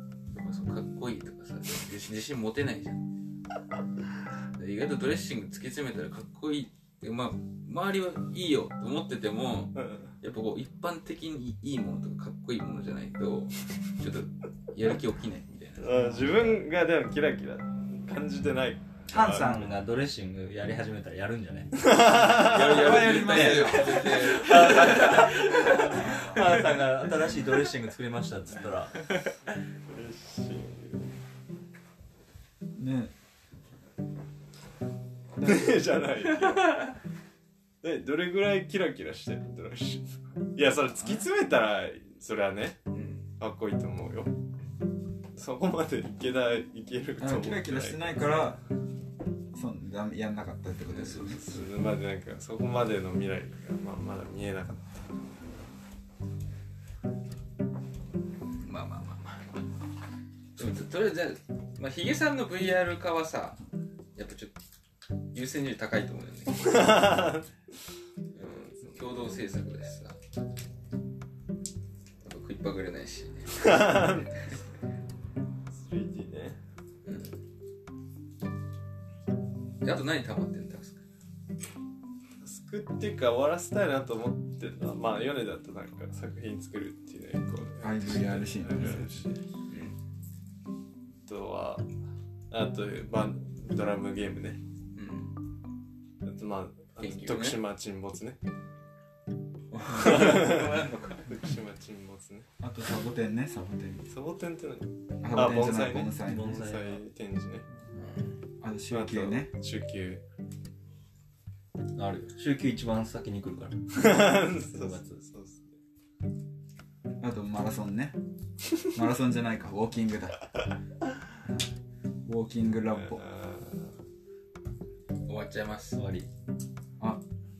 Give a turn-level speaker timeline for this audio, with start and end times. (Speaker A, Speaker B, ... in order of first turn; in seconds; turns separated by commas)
Speaker A: 0.3-3.1, Speaker A: 4.5-16.2, Speaker B: 9.7-10.1, Speaker B: 15.8-19.7, Speaker C: 15.9-16.4, Speaker D: 19.1-22.1, Speaker B: 21.8-23.1, Speaker A: 22.2-26.4, Speaker C: 22.3-26.8, Speaker D: 23.1-29.3, Speaker B: 29.9-31.1, Speaker C: 32.8-33.1, Speaker C: 35.4-35.7, Speaker B: 35.4-37.0, Speaker B: 37.8-42.9, Speaker A: 42.9-43.2, Speaker B: 43.4-44.3, Speaker B: 45.3-48.5, Speaker C: 47.2-48.6, Speaker C: 49.5-51.6, Speaker A: 50.9-51.4, Speaker B: 51.3-55.1, Speaker A: 58.6-59.5, Speaker A: 60.5-63.6, Speaker A: 64.2-64.5, Speaker A: 65.3-67.2, Speaker B: 66.6-67.5, Speaker A: 68.3-70.2, Speaker A: 72.2-74.6, Speaker B: 73.5-74.5, Speaker B: 75.7-76.6, Speaker A: 77.0-77.4, Speaker A: 79.8-81.0, Speaker B: 82.4-89.4, Speaker C: 87.8-89.2, Speaker A: 89.7-90.0, Speaker B: 91.2-91.9, Speaker B: 92.5-94.6, Speaker A: 94.9-95.3, Speaker B: 96.2-98.4, Speaker A: 97.0-97.6, Speaker A: 99.7-101.3, Speaker B: 99.9-102.5, Speaker C: 102.6-104.1, Speaker B: 104.1-107.7, Speaker C: 105.2-106.5, Speaker D: 106.2-107.0, Speaker A: 107.9-108.4, Speaker C: 108.6-109.5, Speaker B: 108.9-110.2, Speaker A: 112.0-112.3, Speaker D: 112.2-115.2, Speaker B: 113.9-115.7, Speaker C: 117.2-118.2, Speaker C: 118.9-120.4, Speaker C: 122.2-123.2, Speaker B: 122.8-124.0, Speaker A: 125.2-126.0, Speaker D: 125.9-126.3